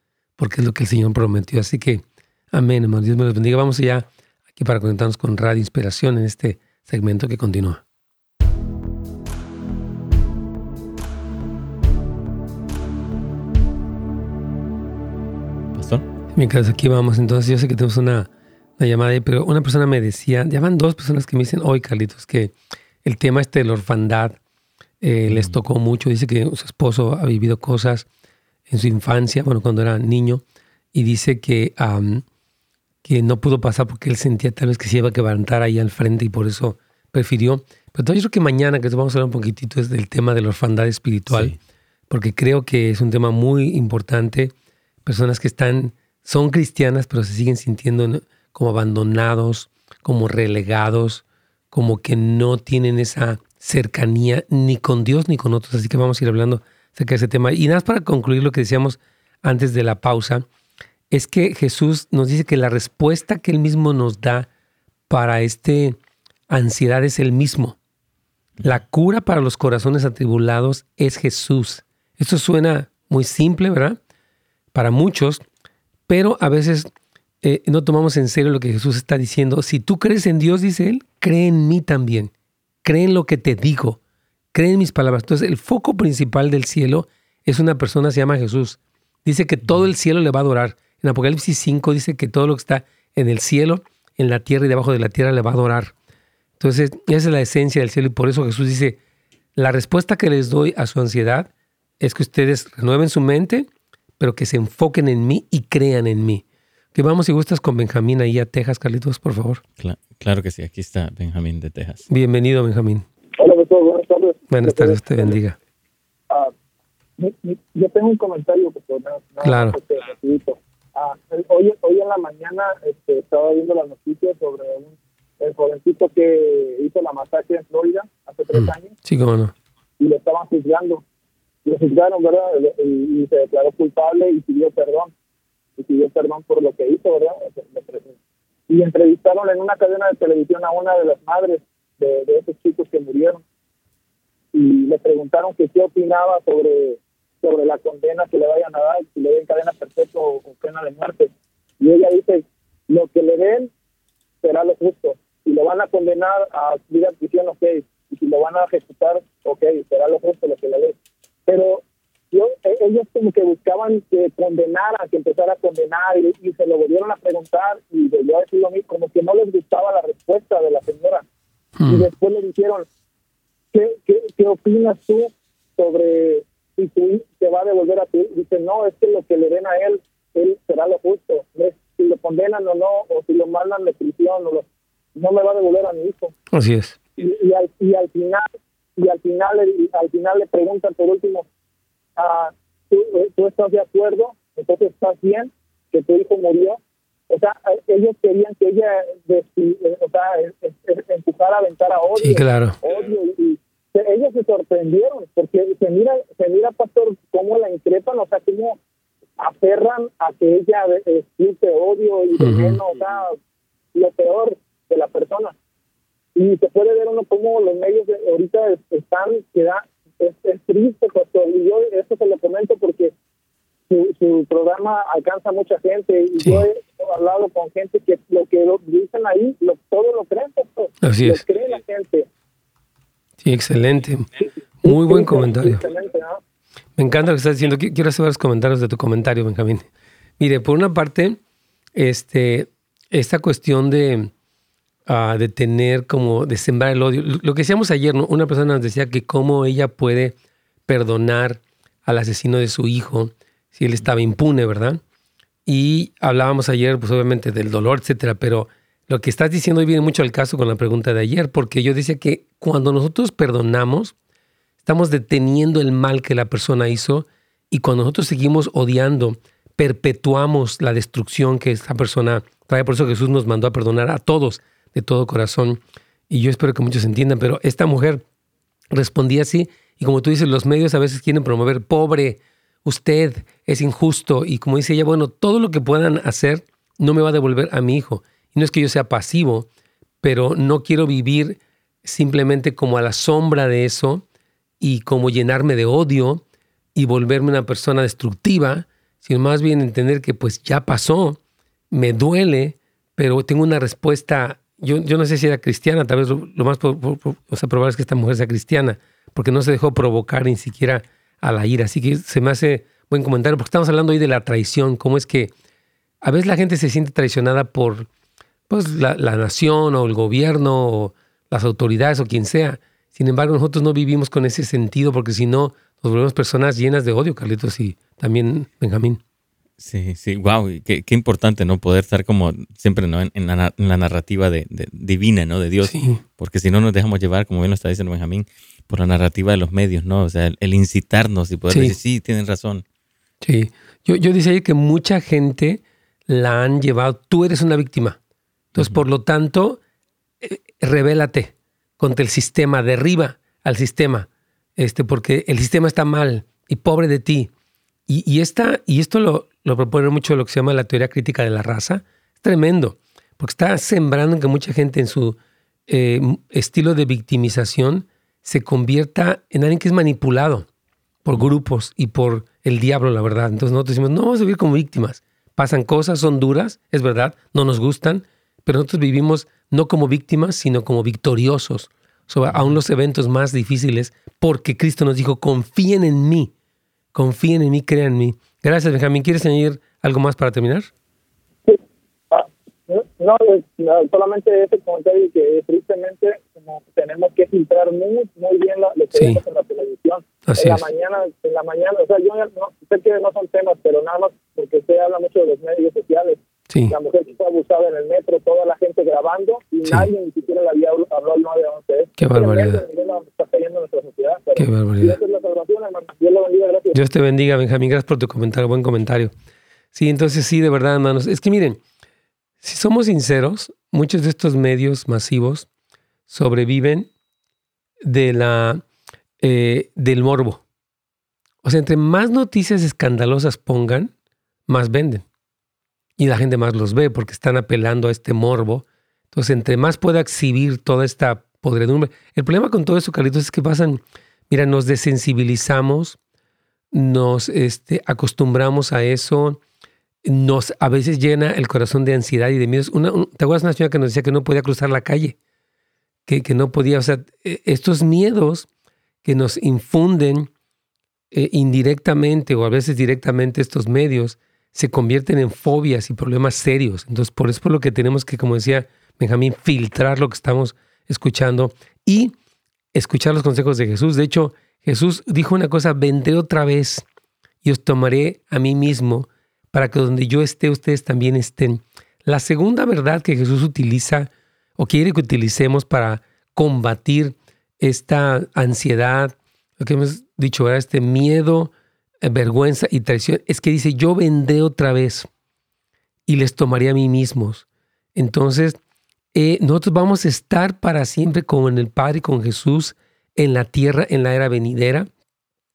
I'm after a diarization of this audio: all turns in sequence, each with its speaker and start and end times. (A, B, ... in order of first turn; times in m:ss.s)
0:00.4-0:07.8 A
0:15.7-0:16.1 B
0:16.3-0:24.4 A
0:25.0-0:28.1 A
0:25.3-0:25.6 B
0:28.7-0:30.4 A
0:30.9-0:32.2 A
0:33.0-0:41.6 A
0:41.3-0:41.6 B
0:42.1-0:44.5 A
0:45.0-1:00.5 A
1:01.1-1:04.5 A
1:05.1-1:06.0 A
1:06.5-1:07.8 A
1:08.6-1:14.0 A
1:14.7-1:15.4 A
1:16.1-1:16.9 A
1:17.4-1:22.3 A
1:22.8-1:24.0 A
1:24.5-1:36.0 A
1:36.6-1:39.0 A
1:39.6-1:43.7 A
1:44.2-1:49.6 A
1:49.8-1:52.1 B
1:52.1-1:53.1 A
1:53.4-1:55.4 C
1:54.5-1:55.6 A
1:57.2-2:09.0 C
1:59.4-1:59.8 A
2:08.5-2:09.5 A
2:10.0-2:11.0 C
2:11.6-2:15.1 C
2:15.8-2:18.2 C
2:18.7-2:23.4 C
2:24.5-2:33.7 C
2:34.4-2:51.2 C
2:51.8-2:52.1 A
2:51.9-2:52.9 C
2:53.7-3:06.3 C
3:06.5-3:07.0 A
3:07.2-3:08.4 C
3:09.0-3:11.5 C
3:12.2-3:28.8 C
3:22.2-3:22.8 A
3:29.4-3:33.4 C
3:32.4-3:32.8 A
3:33.9-3:35.6 C
3:36.4-3:43.1 C
3:43.9-3:52.3 C
3:46.4-3:46.6 A
3:51.0-3:51.4 A
3:53.4-3:54.3 A
3:54.8-3:55.8 A
3:54.8-3:56.4 C
3:57.0-3:59.8 A
4:00.4-4:01.4 A
4:02.0-4:04.3 A
4:05.1-4:10.4 A
4:10.9-4:15.0 A
4:15.7-4:24.2 A
4:24.8-4:38.2 A
4:38.9-4:49.7 A
4:50.2-4:54.2 A
4:54.8-4:56.4 A
4:57.0-5:01.4 A
5:01.9-5:15.5 A
5:16.2-5:18.1 A
5:18.7-5:29.2 A
5:29.8-5:42.8 B
5:35.8-5:36.2 A
5:41.7-5:42.0 A
5:43.4-5:48.2 A
5:48.7-5:49.8 A
5:50.4-5:57.5 A
5:58.1-6:10.7 A
6:11.2-6:26.5 A
6:27.1-6:30.9 A
6:32.3-6:46.4 C
6:39.1-6:39.4 A
6:40.5-6:40.9 A
6:46.7-6:47.0 A
6:46.9-6:57.0 C
6:49.8-6:50.1 A
6:52.2-6:52.8 A
6:54.6-6:55.2 A
6:56.9-6:59.3 A
6:59.9-7:01.8 A
7:02.6-7:05.7 A
7:06.3-7:07.1 A
7:08.0-7:08.8 A
7:09.4-7:10.6 A
7:11.6-7:14.1 A
7:14.7-7:15.2 A
7:16.2-7:26.2 A
7:26.9-7:29.6 A
7:30.2-7:35.4 A
7:36.3-7:38.7 A
7:39.2-7:40.5 A
7:41.3-7:52.3 A
7:52.9-7:57.0 A
7:57.6-8:15.3 A
8:16.3-8:18.8 A
8:19.3-8:25.1 A